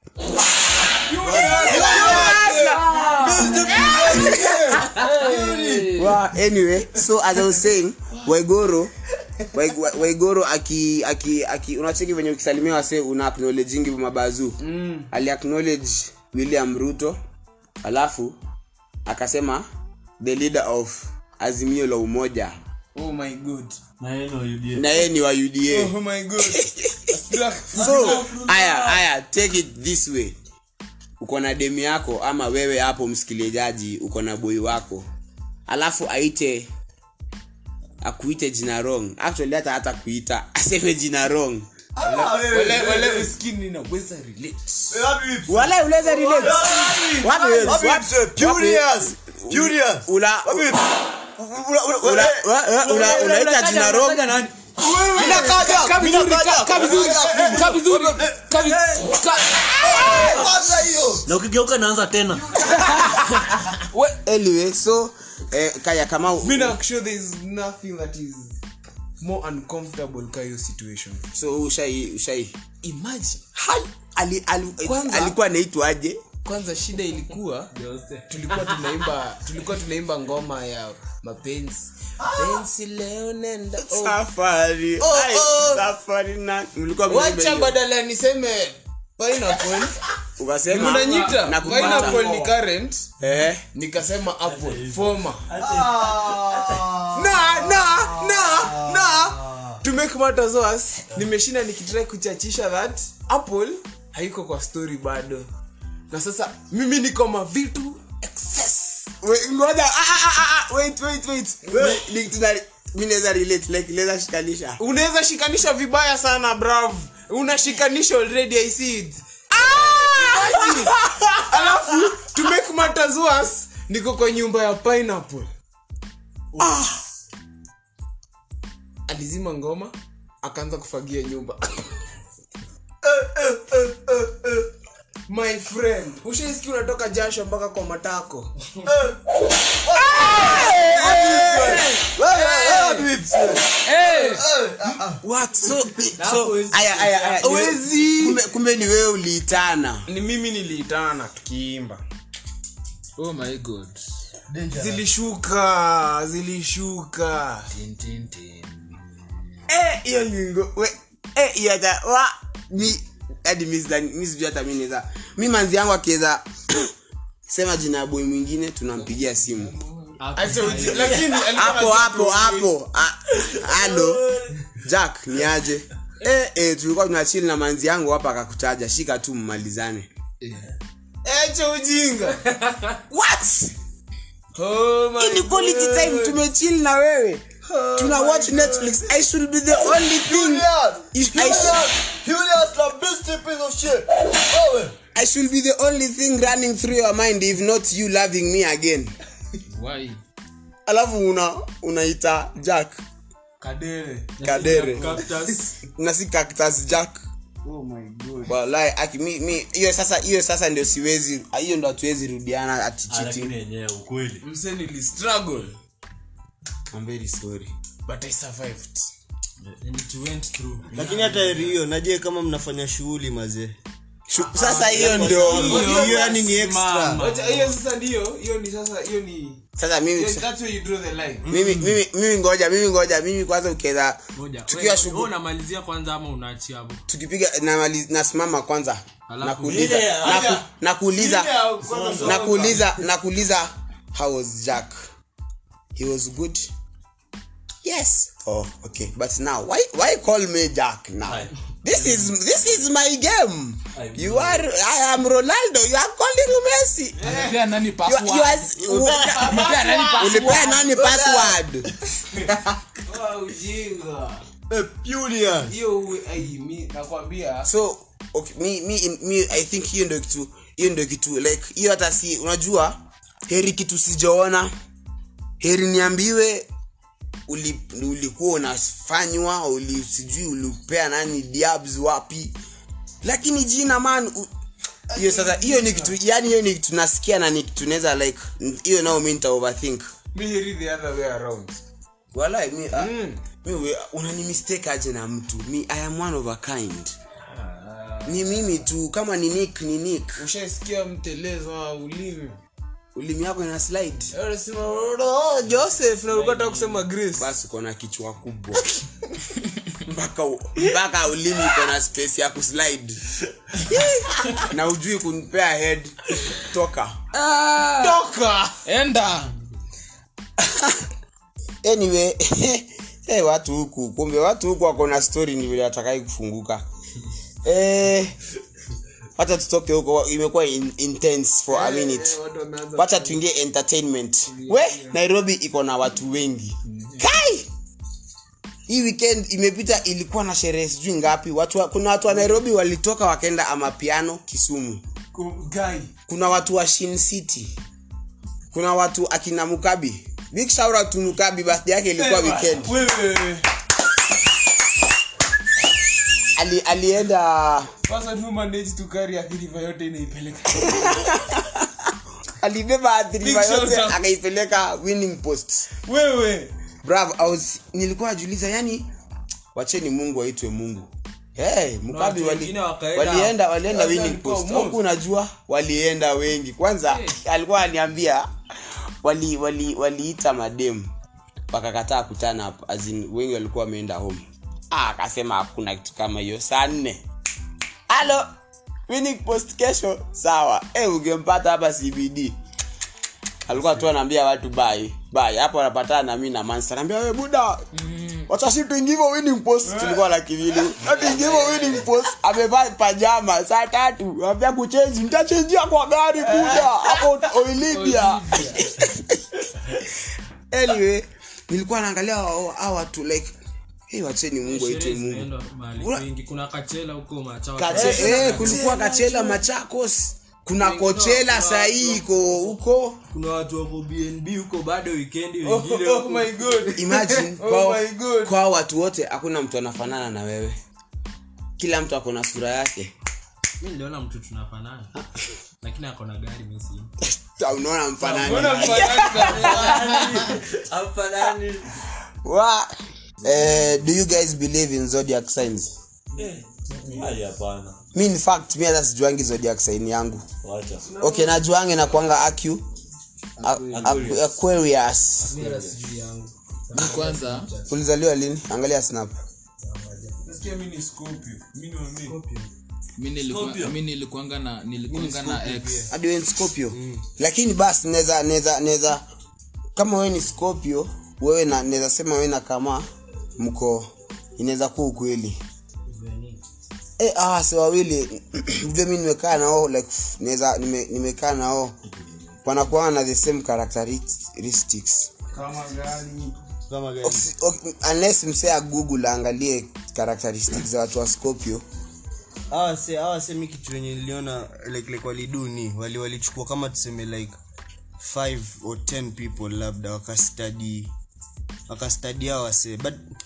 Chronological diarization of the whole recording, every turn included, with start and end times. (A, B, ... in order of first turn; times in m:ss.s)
0:01.0-0:04.9 A
0:01.2-0:06.0 B
0:01.2-0:06.2 C
0:01.2-0:04.7 D
0:03.3-0:03.9 E
0:05.9-0:08.9 D
0:09.5-0:14.6 D
0:14.6-0:15.1 A
0:15.1-0:17.2 D
0:17.8-0:18.4 D
0:19.0-0:19.6 D
0:20.2-0:22.6 D
0:22.9-0:23.8 A
0:24.0-0:25.1 E
0:24.7-0:27.2 D
0:25.7-0:28.4 A
0:27.7-0:30.3 D
0:31.2-0:35.1 D
0:35.7-0:36.7 D
0:38.0-0:41.6 D
0:42.0-0:43.3 B
0:42.0-0:44.9 A
0:44.9-0:53.3 B
0:45.5-0:50.8 D
0:52.0-0:54.4 D
0:52.9-0:54.6 F
0:54.8-0:58.3 A
0:55.0-0:59.2 B
0:55.2-0:55.9 D
0:56.6-1:00.1 C
0:59.0-1:00.5 A
0:59.8-1:01.3 B
1:00.0-1:00.4 D
1:01.2-1:02.7 E
1:02.6-1:03.5 A
1:02.6-1:03.2 D
1:04.2-1:06.8 D
1:06.4-1:08.6 A
1:09.2-1:11.2 A
1:11.3-1:12.6 D
1:12.8-1:13.5 A
1:13.6-1:16.2 D
1:14.8-1:15.4 A
1:16.4-1:17.7 A
1:17.7-1:18.8 F
1:18.3-1:24.2 A
1:23.8-1:27.8 D
1:25.0-1:25.8 A
1:27.0-1:30.0 A
1:30.4-1:32.5 D
1:30.7-1:35.4 A
1:30.8-1:32.2 F
1:30.8-1:32.1 C
1:33.2-1:33.6 D
1:34.4-1:37.0 E
1:35.6-1:39.8 B
1:37.1-1:45.4 A
1:46.1-1:49.1 A
1:49.2-1:54.8 D
1:54.8-2:05.5 A
1:59.5-2:01.5 D
2:06.6-2:07.0 D
2:09.1-2:11.9 A
2:13.0-2:14.6 B
2:15.3-2:18.5 A
2:18.8-2:25.2 B
2:20.0-2:21.8 D
2:20.3-2:23.1 A
2:23.8-2:24.4 C
2:25.2-2:30.1 D
2:26.2-2:27.5 F
2:27.4-2:28.4 A
2:30.1-2:32.0 A
2:33.2-2:34.0 C
2:34.5-2:35.1 B
2:34.7-2:37.7 A
2:37.7-2:39.6 C
2:39.7-2:46.9 D
2:47.5-2:49.7 D
2:49.0-2:50.8 C
2:50.2-2:51.4 F
2:50.3-2:52.7 A
2:51.5-3:00.1 D
3:00.4-3:00.7 C
3:01.2-3:02.4 A
3:02.5-3:02.9 F
3:03.1-3:03.7 D
3:04.5-3:06.4 A
3:05.2-3:07.4 D
3:07.6-3:09.0 A
3:08.0-3:11.9 D
3:10.0-3:15.0 B
3:15.1-3:19.1 D
3:19.7-3:20.2 C
3:20.8-3:23.0 D
3:23.6-3:25.1 A
3:24.4-3:25.8 F
3:24.4-3:25.2 D
3:25.9-3:27.2 D
3:27.6-3:28.5 A
3:28.5-3:33.5 D
3:33.1-3:34.4 E
3:34.4-3:35.8 A
3:36.9-3:37.7 D
3:38.0-3:39.1 A
3:39.8-3:41.8 F
3:40.9-3:43.8 B
3:44.3-3:46.0 D
3:44.6-3:46.4 A
3:44.7-3:47.8 F
3:44.9-3:47.2 B
3:47.2-3:49.6 A
3:49.8-3:50.4 D
3:50.1-3:51.6 A
3:51.5-3:55.3 D
3:54.3-3:57.0 F
3:57.1-4:01.7 D
3:59.3-4:00.2 F
3:59.6-4:00.6 E
4:00.2-4:00.6 A
4:01.2-4:02.6 A
4:01.8-4:02.9 B
4:01.8-4:02.8 E
4:02.2-4:05.0 D
4:05.9-4:06.7 D
4:07.8-4:17.4 D
4:11.2-4:11.5 E
4:13.9-4:14.7 E
4:17.2-4:17.6 A
4:17.2-4:20.8 C
4:18.0-4:21.9 D
4:19.1-4:19.6 B
4:19.1-4:20.7 A
4:20.8-4:21.6 B
4:22.5-4:22.8 D
4:23.0-4:24.4 A
4:24.7-4:25.8 B
4:25.7-4:27.7 A
4:27.6-4:34.7 D
4:35.6-4:36.6 D
4:37.5-4:42.5 D
4:43.2-4:44.5 D
4:45.1-4:46.2 A
4:45.1-4:50.1 D
4:50.3-4:51.8 A
4:52.3-4:57.1 D
4:52.9-4:53.4 A
4:57.5-4:58.4 A
4:58.2-5:00.4 D
5:00.4-5:02.6 A
5:03.1-5:04.3 D
5:04.3-5:07.5 A
5:06.3-5:07.1 F
5:07.3-5:08.8 D
5:10.0-5:13.2 D
5:13.8-5:17.2 D
5:17.3-5:18.2 C
5:18.0-5:18.8 A
5:18.8-5:19.5 C
5:20.6-5:21.0 D
5:21.8-5:26.8 D
5:27.6-5:28.3 D
5:29.4-5:32.4 D
5:31.7-5:33.4 A
5:33.0-5:37.7 D
5:34.5-5:35.2 A
5:36.8-5:37.3 A
5:38.9-5:45.0 D
5:42.3-5:42.6 A
5:45.3-5:46.1 A
5:46.3-5:47.7 D
5:48.7-5:52.9 D
5:52.1-5:53.6 A
5:56.6-5:57.9 D
5:58.0-6:01.3 A
6:00.8-6:01.9 D
6:02.6-6:05.9 D
6:03.4-6:04.2 A
6:05.9-6:06.7 A
6:07.0-6:09.1 D
6:09.7-6:18.5 D
6:12.1-6:13.6 F
6:13.9-6:15.0 A
6:17.0-6:17.4 F
6:19.2-6:21.1 D
6:21.7-6:27.2 D
6:28.1-6:28.5 D
6:29.1-6:32.6 D
6:33.6-6:37.9 D
6:37.9-6:38.5 C
6:38.5-6:49.4 D
6:39.8-6:40.2 A
6:41.0-6:42.1 C
6:46.5-6:46.9 A
6:47.9-6:48.9 C
6:50.7-6:53.5 D
6:54.1-6:56.2 D
6:54.6-6:59.1 F
6:57.8-7:03.2 D
6:58.0-6:59.6 A
7:00.8-7:02.8 F
7:03.3-7:06.9 F
7:05.6-7:08.6 A
7:07.0-7:10.8 D
7:11.8-7:13.1 D
7:13.8-7:15.1 F
7:15.8-7:17.1 F
7:17.6-7:20.6 D
7:18.2-7:20.1 F
7:18.2-7:20.5 A
7:19.0-7:22.0 E
7:22.4-7:22.9 D
7:23.4-7:25.9 D
7:26.9-7:27.2 F
7:27.0-7:28.0 E
7:28.1-7:30.4 D
7:30.6-7:31.1 E
7:31.0-7:31.6 A
7:31.2-7:32.8 D
7:33.6-7:34.0 C
7:33.6-7:35.6 D
7:33.9-7:34.6 E
7:35.4-7:36.0 E
7:35.5-7:37.9 F
7:36.9-7:37.7 C
7:37.9-7:39.4 D
7:39.9-7:40.4 F
7:40.4-7:42.4 A
7:42.2-7:42.7 F
7:43.2-7:46.1 C
7:43.4-7:44.0 E
7:46.1-7:49.2 D
7:46.9-7:47.2 B
7:50.0-7:53.1 D
7:53.6-7:55.6 D
7:56.1-7:56.6 F
7:57.2-8:02.0 D
8:02.6-8:05.3 D
8:05.5-8:06.5 A
8:06.9-8:07.5 B
8:07.2-8:11.8 D
8:12.7-8:17.6 B
8:18.2-8:21.1 B
8:21.9-8:23.2 B